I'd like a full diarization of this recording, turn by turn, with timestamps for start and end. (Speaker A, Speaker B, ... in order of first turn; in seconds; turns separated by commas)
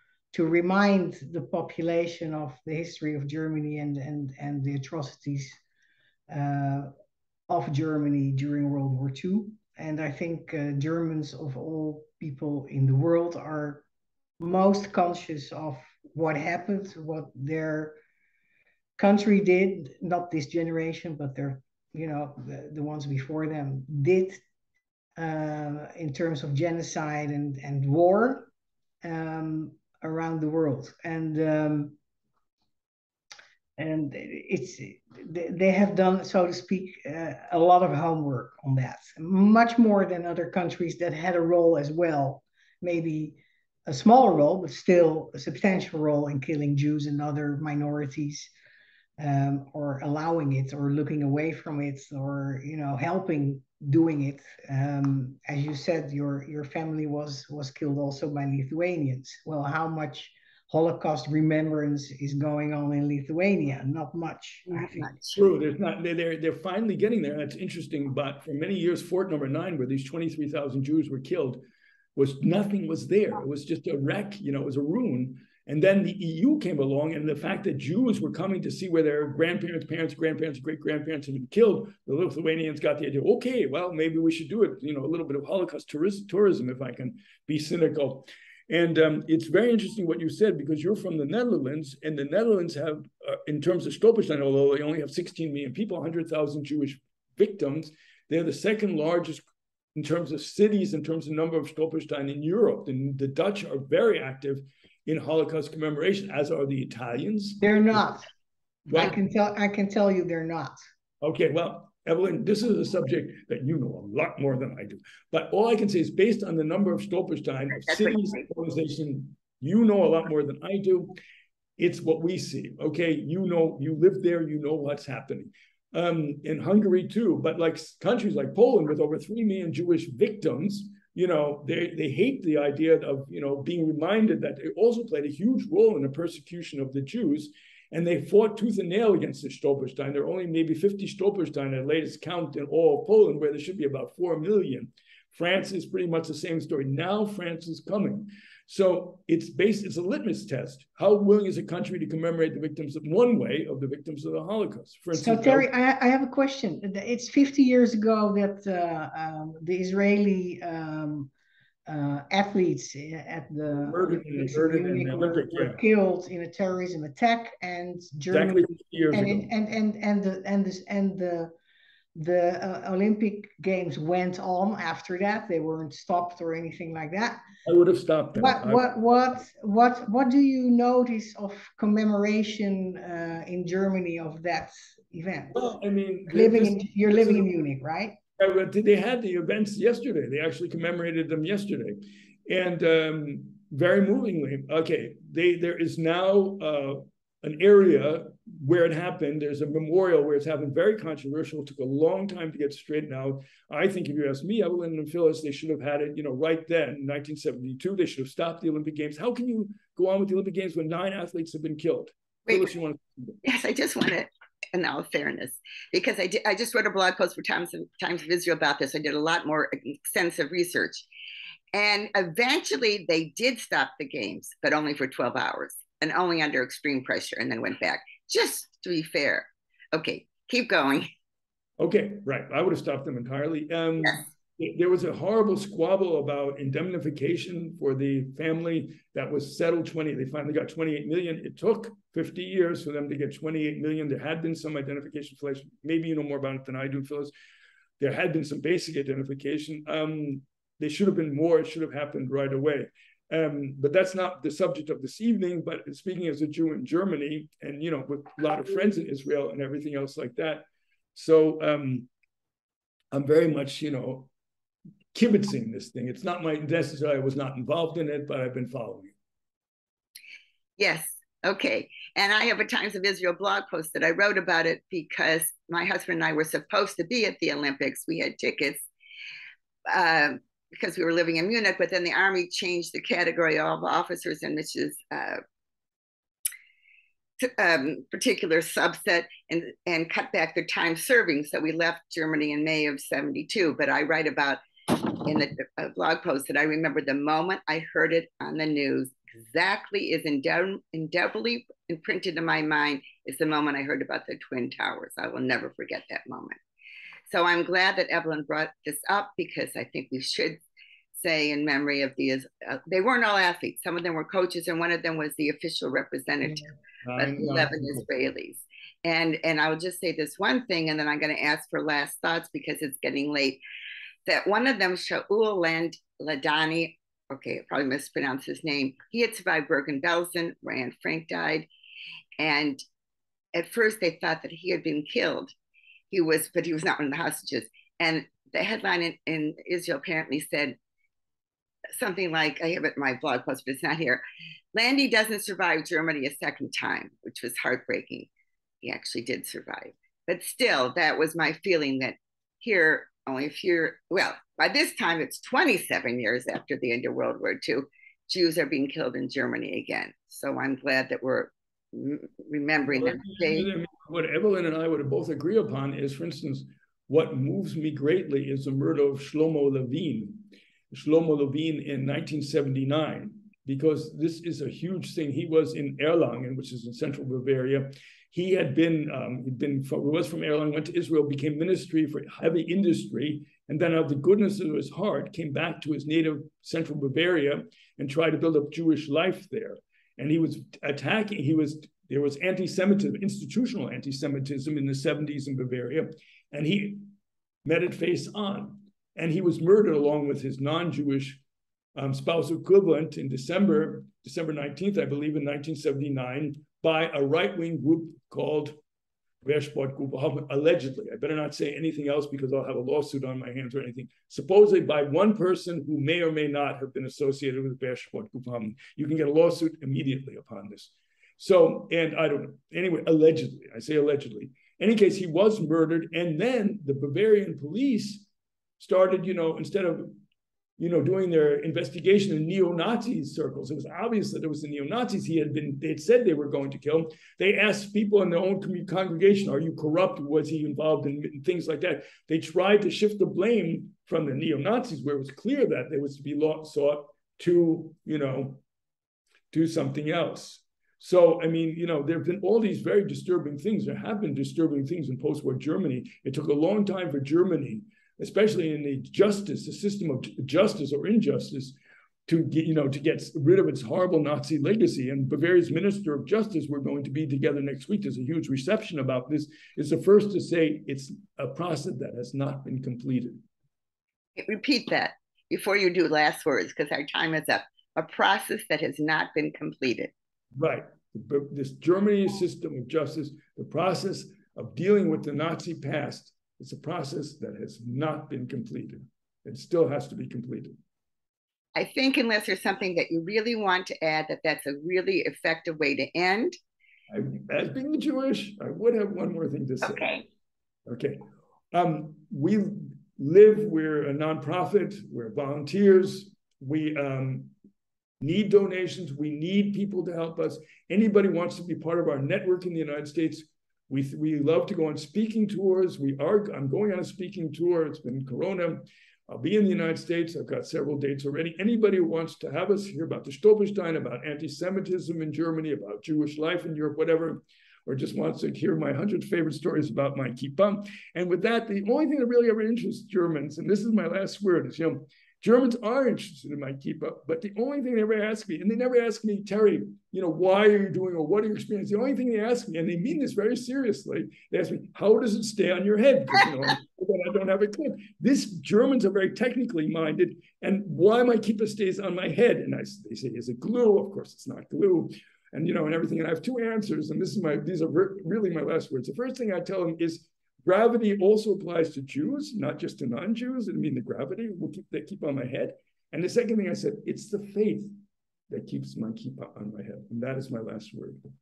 Speaker A: 0.3-5.6, Speaker A: 6.3-6.9, Speaker A: 7.5-13.8, Speaker A: 14.4-18.0, Speaker A: 19.0-24.4, Speaker A: 25.2-28.5, Speaker A: 29.0-32.0, Speaker A: 33.8-48.5, Speaker A: 49.2-65.1, Speaker B: 64.7-65.4, Speaker C: 65.3-71.6, Speaker C: 72.2-108.2, Speaker A: 107.6-108.3, Speaker A: 108.9-110.8, Speaker C: 108.9-109.2, Speaker C: 111.2-121.2, Speaker B: 117.9-118.4, Speaker C: 121.8-155.7, Speaker A: 155.2-161.3, Speaker A: 161.9-171.5, Speaker C: 163.7-165.8, Speaker C: 168.3-169.5, Speaker A: 172.2-177.4, Speaker C: 177.7-179.4, Speaker A: 178.3-185.6, Speaker C: 185.5-187.5, Speaker A: 186.3-188.2, Speaker C: 188.4-213.4, Speaker B: 213.4-221.1, Speaker B: 221.7-231.1, Speaker C: 231.8-247.3, Speaker C: 248.0-262.1, Speaker C: 263.1-264.3, Speaker C: 265.1-269.1, Speaker B: 270.8-278.9, Speaker B: 279.9-285.4, Speaker B: 287.4-306.6, Speaker B: 307.3-310.6, Speaker B: 311.1-323.6, Speaker C: 317.0-318.1, Speaker B: 324.3-331.7, Speaker B: 332.4-332.8, Speaker B: 333.5-335.5, Speaker B: 336.1-340.8, Speaker B: 342.0-344.2, Speaker B: 344.7-348.3, Speaker B: 348.8-363.7, Speaker C: 362.9-397.1, Speaker C: 397.6-401.4, Speaker C: 401.9-408.8, Speaker C: 409.4-428.3, Speaker C: 428.8-430.1, Speaker C: 430.8-448.6, Speaker C: 449.5-473.4, Speaker B: 474.4-480.1, Speaker C: 480.6-490.8, Speaker B: 491.8-496.6, Speaker C: 497.1-500.1, Speaker B: 499.8-500.3, Speaker C: 500.9-507.5, Speaker C: 508.2-567.9, Speaker C: 568.5-571.2